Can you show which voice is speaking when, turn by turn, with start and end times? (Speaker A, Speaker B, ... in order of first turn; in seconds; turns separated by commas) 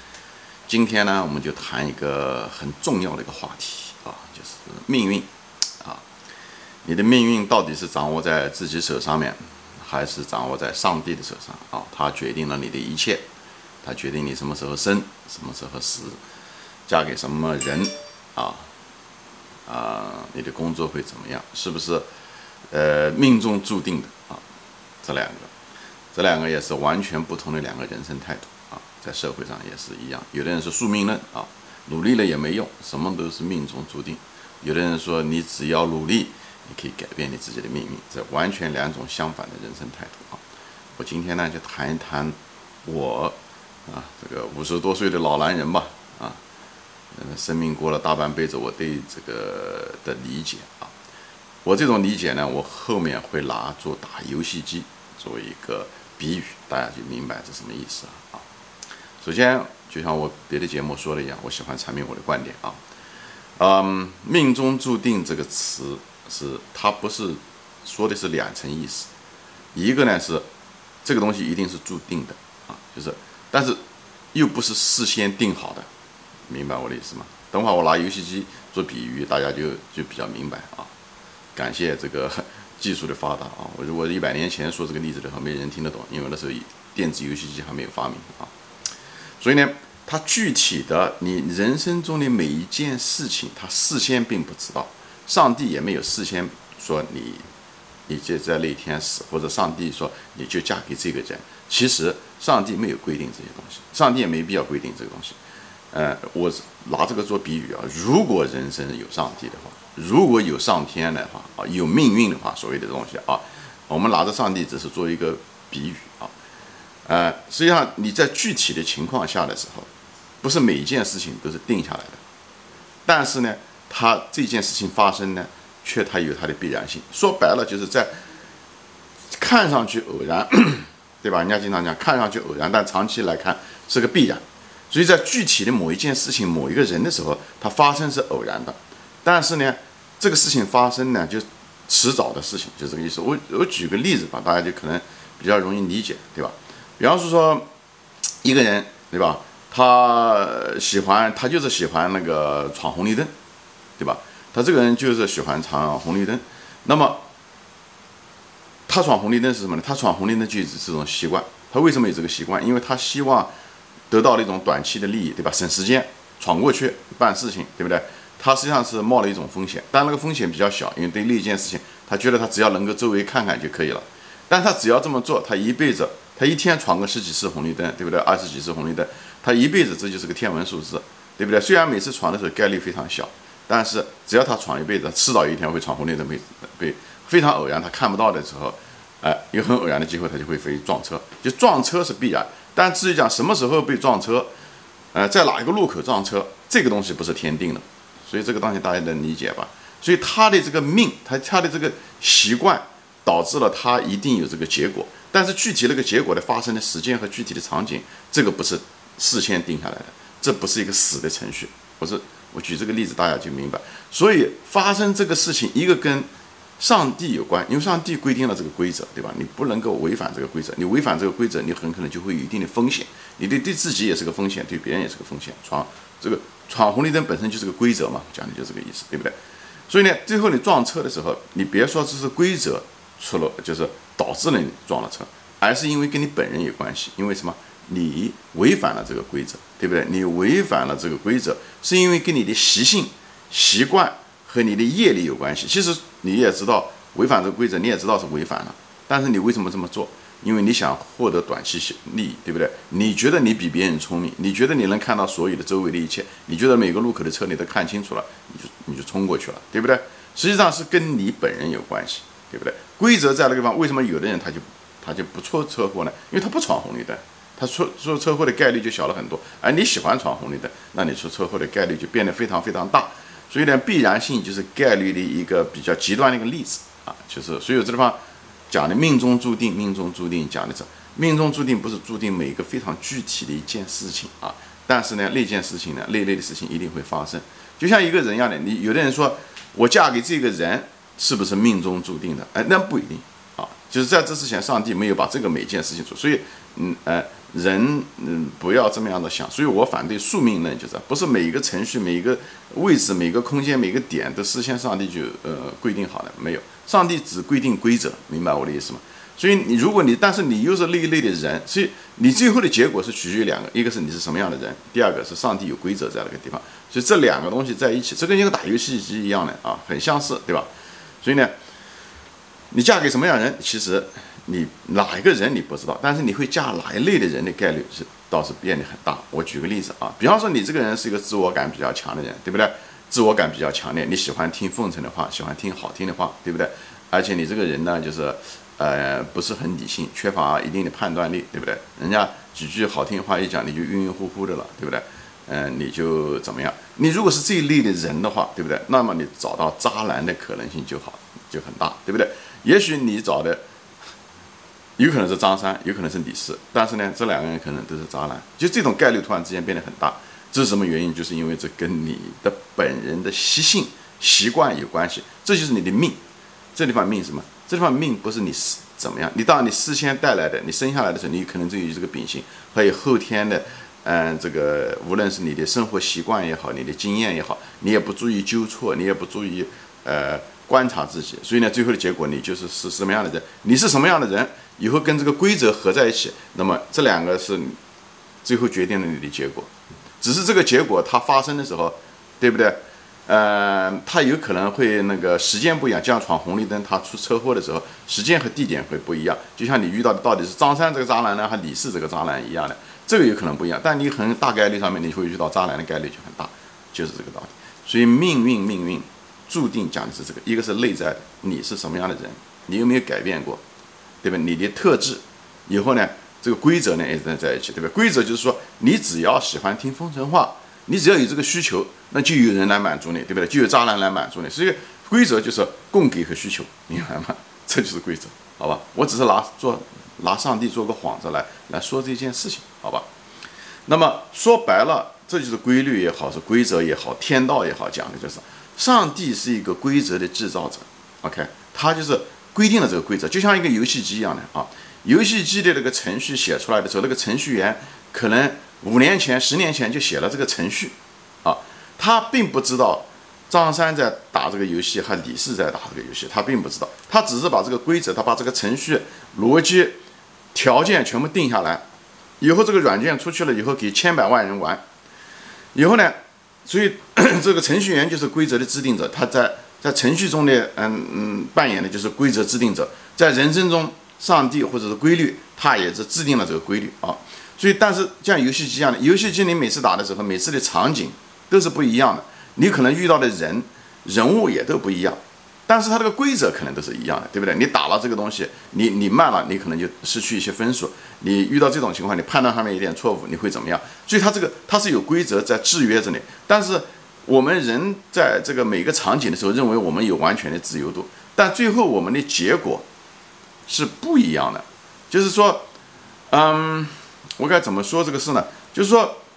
Speaker A: 0.7-5.3, Speaker A: 6.8-13.2, Speaker A: 13.8-16.2, Speaker A: 16.9-18.7, Speaker A: 19.7-22.1, Speaker A: 22.7-24.4, Speaker A: 25.0-25.5, Speaker A: 26.1-40.4, Speaker A: 41.0-43.4, Speaker A: 43.9-46.4, Speaker A: 47.1-50.9, Speaker A: 51.6-58.5, Speaker A: 59.2-62.8, Speaker A: 63.6-69.1, Speaker A: 69.7-70.5, Speaker A: 71.0-73.8, Speaker A: 74.3-75.9, Speaker A: 76.5-80.9, Speaker A: 81.6-88.5, Speaker A: 89.4-97.5, Speaker A: 98.1-105.4, Speaker A: 105.9-116.3, Speaker A: 117.1-119.9, Speaker A: 120.4-122.2, Speaker A: 123.1-128.1, Speaker A: 129.3-147.7, Speaker A: 148.4-153.3, Speaker A: 154.0-157.2, Speaker A: 158.9-163.5, Speaker A: 164.1-194.5, Speaker A: 195.1-229.4, Speaker A: 229.9-278.2, Speaker A: 278.7-320.7, Speaker A: 321.2-321.5, Speaker A: 322.7-353.6, Speaker A: 355.0-366.2, Speaker A: 366.8-387.8, Speaker A: 388.4-389.7, Speaker A: 390.2-413.6, Speaker A: 414.2-433.1, Speaker A: 433.9-460.0, Speaker A: 460.5-461.8, Speaker A: 462.4-464.8, Speaker A: 465.7-502.9, Speaker A: 503.7-505.7, Speaker A: 506.3-509.2